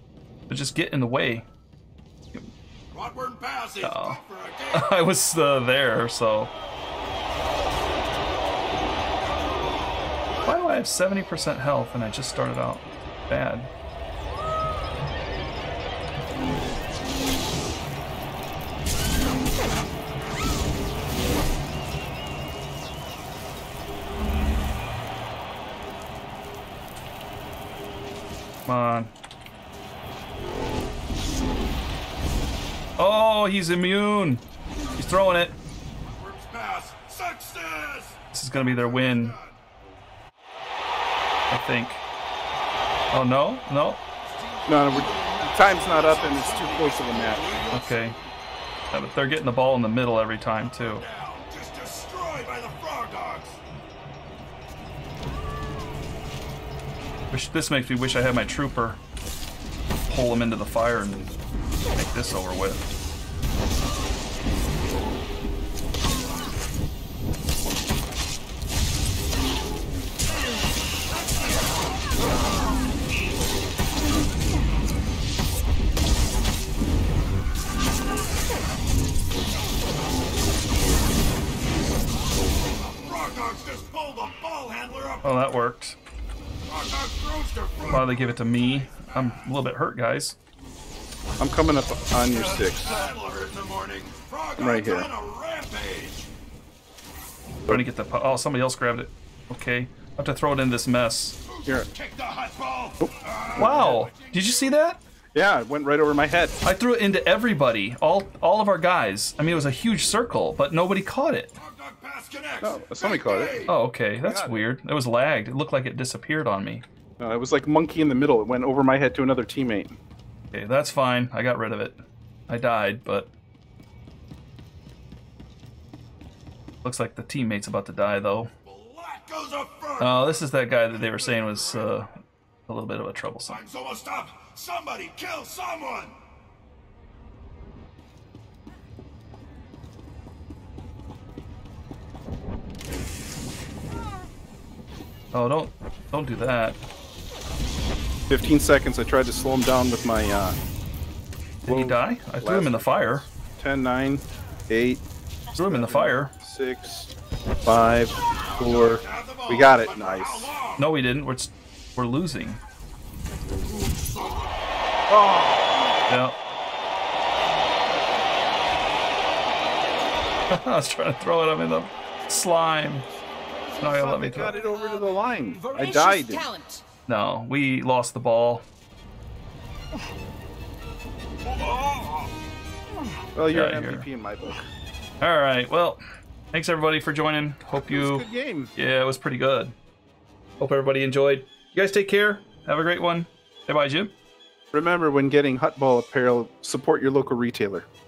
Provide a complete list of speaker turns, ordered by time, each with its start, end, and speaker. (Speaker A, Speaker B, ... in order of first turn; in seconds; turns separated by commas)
Speaker A: 0.5-1.4, Speaker B: 2.9-5.0, Speaker A: 3.8-4.2, Speaker A: 4.7-6.5, Speaker B: 10.1-10.6, Speaker A: 10.4-13.7, Speaker A: 28.6-29.1, Speaker A: 33.0-34.4, Speaker A: 35.0-35.6, Speaker B: 36.0-39.6, Speaker A: 38.3-39.4, Speaker A: 41.5-42.0, Speaker A: 43.1-44.0, Speaker B: 44.2-48.0, Speaker C: 44.7-47.5, Speaker A: 47.7-48.2, Speaker A: 48.9-51.0, Speaker B: 50.6-53.6, Speaker A: 57.3-59.0, Speaker A: 60.1-61.3, Speaker A: 61.9-62.9, Speaker B: 82.8-85.4, Speaker A: 85.2-86.0, Speaker B: 86.7-89.5, Speaker A: 87.9-90.4, Speaker C: 91.4-93.0, Speaker B: 92.8-96.3, Speaker C: 94.6-95.1, Speaker A: 97.7-101.4, Speaker B: 101.5-104.8, Speaker C: 103.0-104.0, Speaker A: 103.6-105.0, Speaker C: 105.3-106.6, Speaker A: 106.6-111.5, Speaker B: 111.6-113.7, Speaker C: 112.6-113.6, Speaker A: 113.7-116.8, Speaker C: 114.2-114.7, Speaker C: 117.2-120.0, Speaker A: 120.5-123.3, Speaker A: 126.8-128.5, Speaker B: 128.6-131.9, Speaker A: 130.0-132.1, Speaker A: 132.7-133.6, Speaker B: 133.4-136.2, Speaker A: 145.3-146.8, Speaker C: 148.3-150.6, Speaker A: 151.6-153.3, Speaker C: 151.7-155.0, Speaker C: 155.5-157.1, Speaker A: 155.6-156.3, Speaker C: 157.6-160.5, Speaker B: 158.5-160.8, Speaker A: 160.8-162.6, Speaker B: 163.6-164.5, Speaker C: 165.1-165.9, Speaker A: 166.1-166.4, Speaker A: 170.5-173.1, Speaker D: 173.8-176.8, Speaker A: 173.8-174.6, Speaker C: 173.9-176.5, Speaker A: 177.1-178.6, Speaker C: 183.3-184.7, Speaker A: 183.5-184.1, Speaker A: 185.2-186.0, Speaker A: 186.5-189.7, Speaker C: 187.9-188.7, Speaker A: 190.6-194.1, Speaker C: 194.7-197.9